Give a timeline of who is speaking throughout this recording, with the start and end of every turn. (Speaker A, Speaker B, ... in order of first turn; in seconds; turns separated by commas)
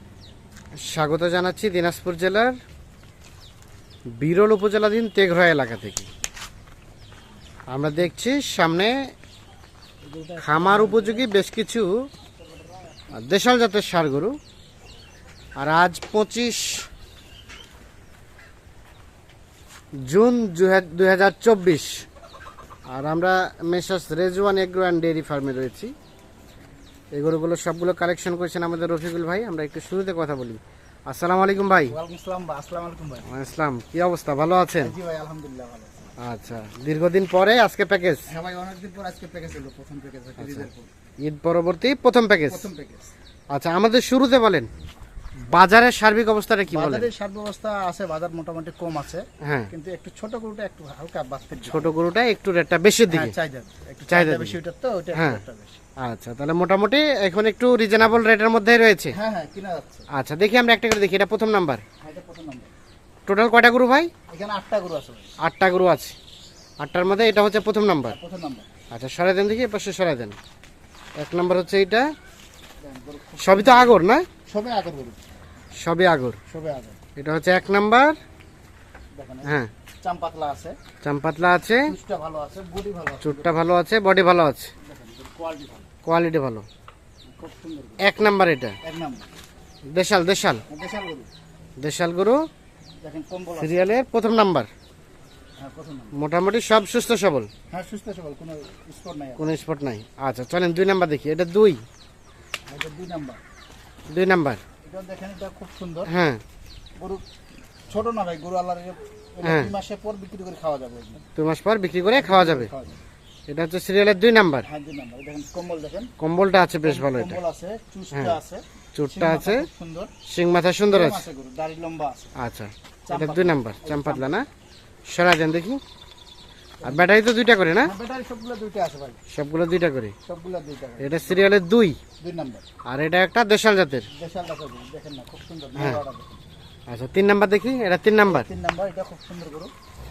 Speaker A: 0.8-2.6, Speaker A: 4.2-6.1, Speaker A: 7.7-9.1, Speaker B: 10.0-11.3, Speaker A: 10.4-12.1, Speaker B: 12.4-13.2, Speaker A: 13.1-14.4, Speaker A: 15.6-16.9, Speaker A: 20.0-22.1, Speaker A: 22.9-25.9, Speaker A: 27.1-31.9, Speaker B: 31.9-33.3, Speaker A: 33.3-34.9, Speaker B: 34.8-36.1, Speaker A: 36.2-38.3, Speaker B: 38.3-40.9, Speaker A: 41.2-42.7, Speaker B: 42.5-43.1, Speaker A: 43.5-44.7, Speaker A: 45.4-47.1, Speaker B: 46.7-51.9, Speaker A: 49.4-49.7, Speaker A: 51.6-53.3, Speaker B: 53.1-55.8, Speaker A: 54.1-54.6, Speaker A: 55.1-55.4, Speaker A: 56.0-59.1, Speaker B: 59.1-60.1, Speaker A: 60.1-61.8, Speaker B: 62.0-62.7, Speaker A: 63.2-64.1, Speaker B: 64.3-65.3, Speaker A: 65.4-66.2, Speaker A: 66.8-68.2, Speaker B: 68.1-68.7, Speaker A: 68.9-70.3, Speaker A: 71.2-72.1, Speaker B: 72.8-75.2, Speaker A: 73.4-74.3, Speaker A: 75.8-76.4, Speaker B: 76.5-77.0, Speaker A: 77.2-78.2, Speaker B: 79.1-80.8, Speaker A: 81.0-81.9, Speaker B: 81.8-83.5, Speaker A: 83.2-84.7, Speaker B: 84.8-85.9, Speaker A: 86.0-86.7, Speaker B: 87.3-88.1, Speaker A: 88.0-88.8, Speaker B: 88.8-89.3, Speaker A: 89.9-90.6, Speaker B: 90.7-91.3, Speaker A: 91.8-92.4, Speaker B: 93.0-93.8, Speaker A: 93.6-94.7, Speaker B: 95.6-96.1, Speaker A: 96.1-97.5, Speaker B: 97.7-99.6, Speaker A: 99.4-101.8, Speaker B: 102.7-103.4, Speaker A: 104.1-104.6, Speaker B: 104.8-106.1, Speaker A: 106.1-106.4, Speaker B: 107.0-107.2, Speaker B: 107.9-111.2, Speaker A: 109.4-109.7, Speaker A: 111.3-112.7, Speaker B: 112.1-113.0, Speaker A: 113.5-114.7, Speaker B: 114.6-116.1, Speaker A: 116.2-117.4, Speaker B: 116.8-120.1, Speaker A: 118.9-119.7, Speaker A: 120.2-121.2, Speaker B: 120.9-122.3, Speaker A: 122.3-124.5, Speaker B: 123.1-124.4, Speaker A: 125.0-125.8, Speaker A: 126.8-127.9, Speaker B: 127.8-129.2, Speaker A: 129.3-130.1, Speaker B: 130.3-131.4, Speaker A: 131.0-132.0, Speaker B: 132.2-132.7, Speaker A: 132.8-134.1, Speaker B: 134.1-136.4, Speaker A: 136.9-138.5, Speaker B: 138.3-139.7